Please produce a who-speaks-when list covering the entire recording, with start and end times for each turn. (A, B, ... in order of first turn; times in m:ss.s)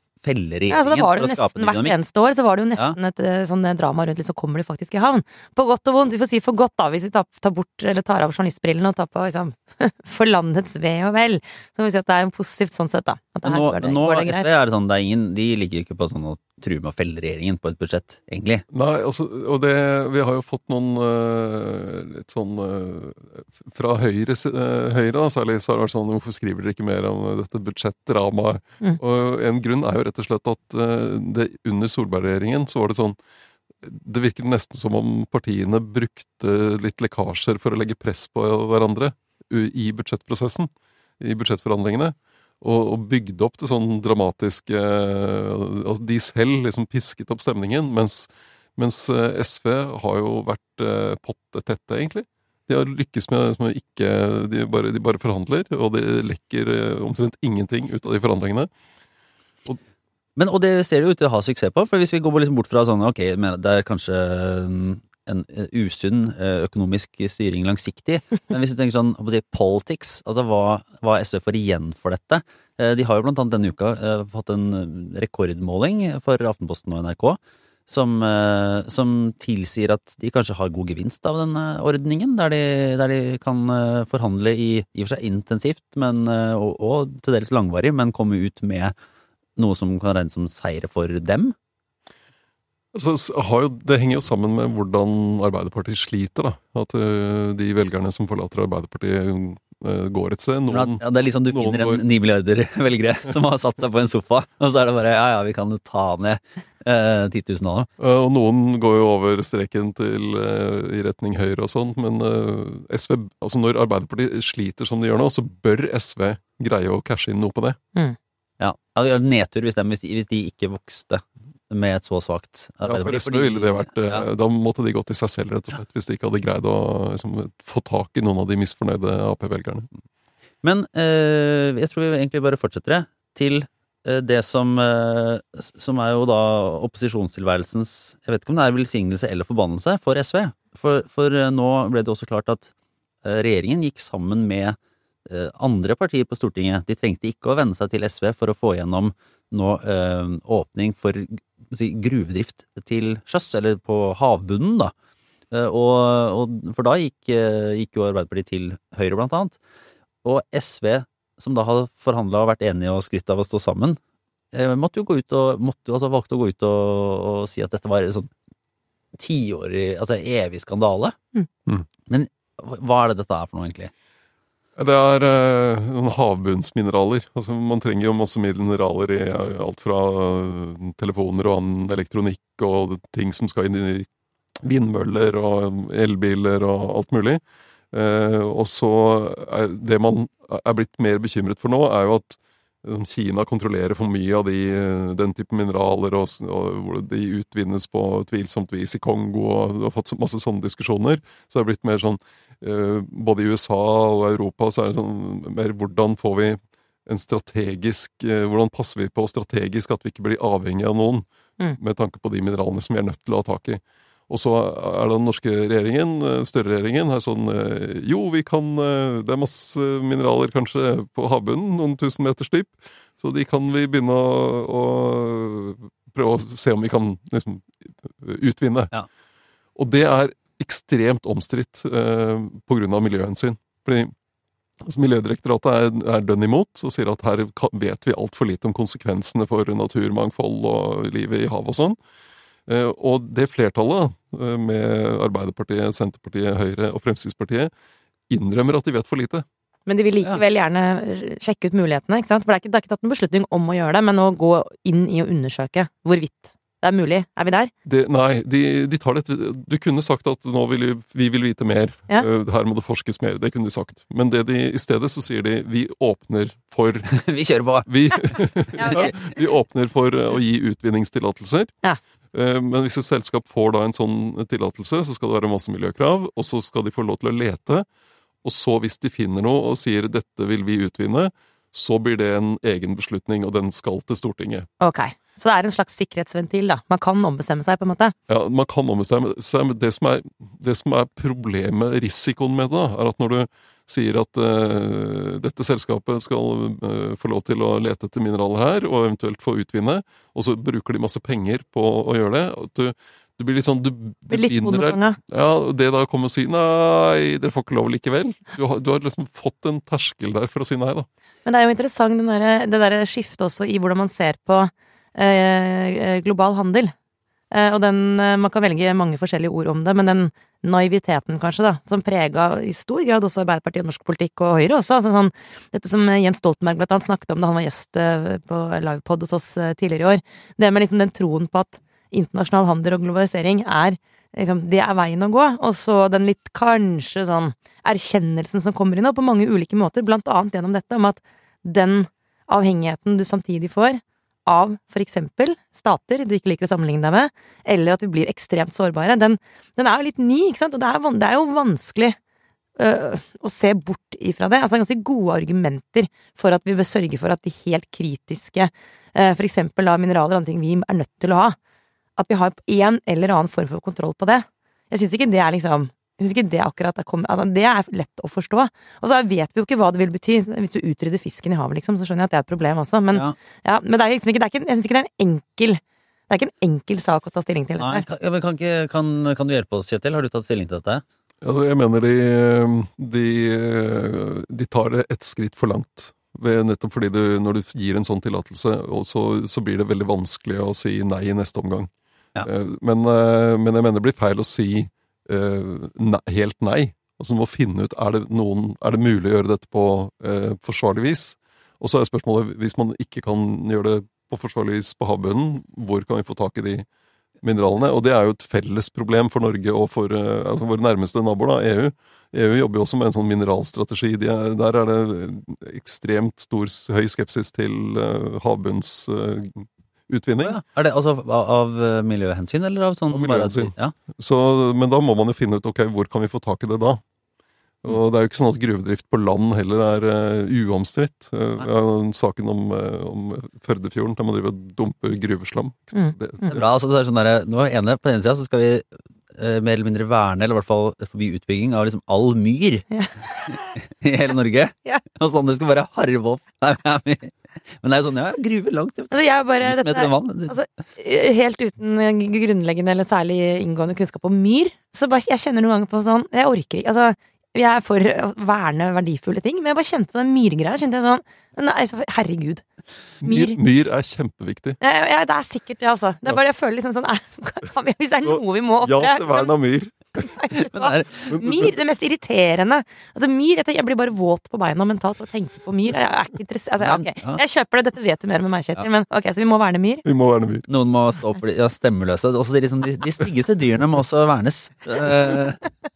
0:00.2-0:01.9 A
0:00.7-0:14.5 B
0:13.4-0:18.6 A
0:18.7-0:33.2 C
0:33.8-0:58.7 C
1:00.4-1:28.9 A
1:29.6-1:31.5 A
1:32.9-1:42.0 C
1:40.7-1:47.9 A
1:48.0-1:57.8 C
1:58.6-2:04.2 A
2:02.8-2:09.9 C
2:10.6-2:22.7 A
2:23.2-2:34.9 A
2:35.5-2:39.6 A
2:40.2-2:44.0 A
2:44.5-2:48.3 A
2:49.2-2:51.2 A
2:52.1-2:53.9 A
2:54.8-3:04.1 C
3:04.6-3:07.4 C
3:07.9-3:31.2 C
3:31.8-3:48.9 C
3:49.8-3:54.1 C
3:54.8-4:02.0 C
4:02.7-4:07.7 C
4:08.3-4:09.4 C
4:09.9-4:17.7 B
4:17.8-4:27.2 C
4:27.1-4:29.1 A
4:27.8-4:31.7 C
4:28.8-4:29.1 B
4:32.3-4:37.8 C
4:38.4-4:44.7 C
4:44.8-4:48.1 B
4:48.3-5:11.1 C
5:04.3-5:05.2 B
5:11.4-5:16.9 B
5:17.5-5:52.2 B
5:52.8-6:01.6 B
6:02.2-6:18.0 B
6:17.8-6:21.0 A
6:21.4-6:31.9 C
6:32.4-6:46.8 C
6:47.4-7:00.6 C
7:00.4-7:03.9 A
7:03.1-7:07.0 C
7:07.8-7:16.6 C
7:15.9-7:16.5 B
7:16.5-7:22.9 A
7:22.9-7:23.8 B
7:23.5-7:30.6 A
7:29.1-7:42.6 B
7:43.2-7:43.6 B
7:43.2-7:44.8 C
7:44.8-7:49.5 B
7:48.2-7:50.3 C
7:50.2-8:00.0 B
7:50.7-7:51.3 A
7:51.3-7:51.7 C
7:56.8-7:57.4 A
8:00.0-8:00.6 C
8:00.7-8:05.6 A